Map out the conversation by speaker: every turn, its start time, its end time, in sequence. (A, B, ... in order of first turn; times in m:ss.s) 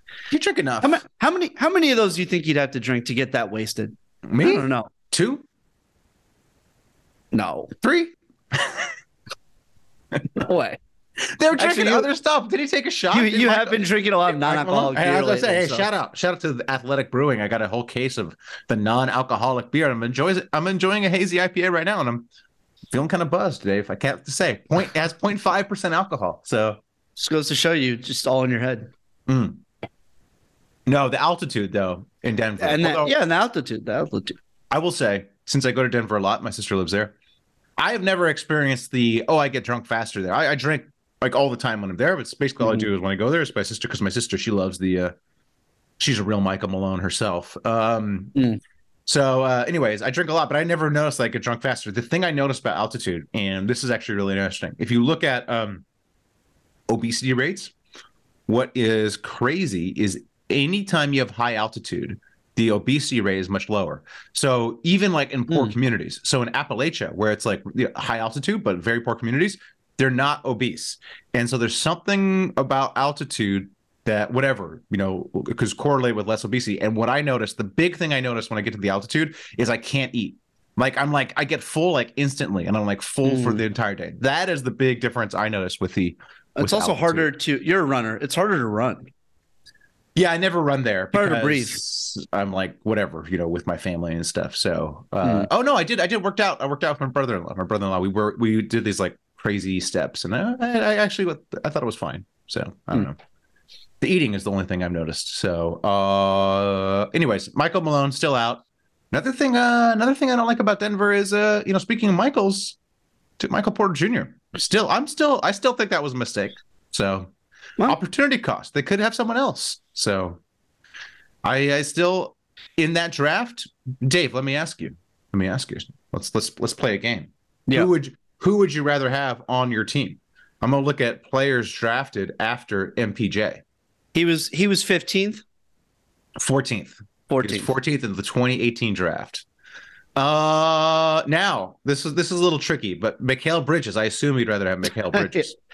0:00.3-0:01.0 A
0:00.8-0:04.9 B
0:04.3-0:05.4 A
0:07.3-0:07.7 B
0:07.8-0:08.9 A
0:10.3-0:10.8 B
0:11.2-0:22.3 A
0:11.6-0:12.1 B
0:13.1-0:15.9 B
0:22.9-0:26.8 A
0:27.2-0:28.9 B
0:29.3-0:29.6 A
0:30.9-0:33.2 A
0:32.6-0:34.4 B
0:34.7-0:37.1 A
0:37.8-0:45.2 A
0:42.6-0:42.9 B
0:46.0-0:48.4 A
0:49.1-0:55.8 A
0:56.9-0:57.7 A
0:58.5-1:27.3 A
1:23.2-1:23.6 B
1:26.6-1:29.1 B
1:30.2-1:43.2 A
1:31.1-1:31.8 B
1:35.2-1:35.5 B
1:44.0-1:52.8 A
1:53.4-1:57.3 A
1:57.8-2:00.4 A
2:01.4-2:13.6 A
2:14.1-2:15.4 B
2:16.4-2:19.4 A
2:17.3-2:17.7 B
2:20.2-2:25.6 A
2:25.1-2:25.5 B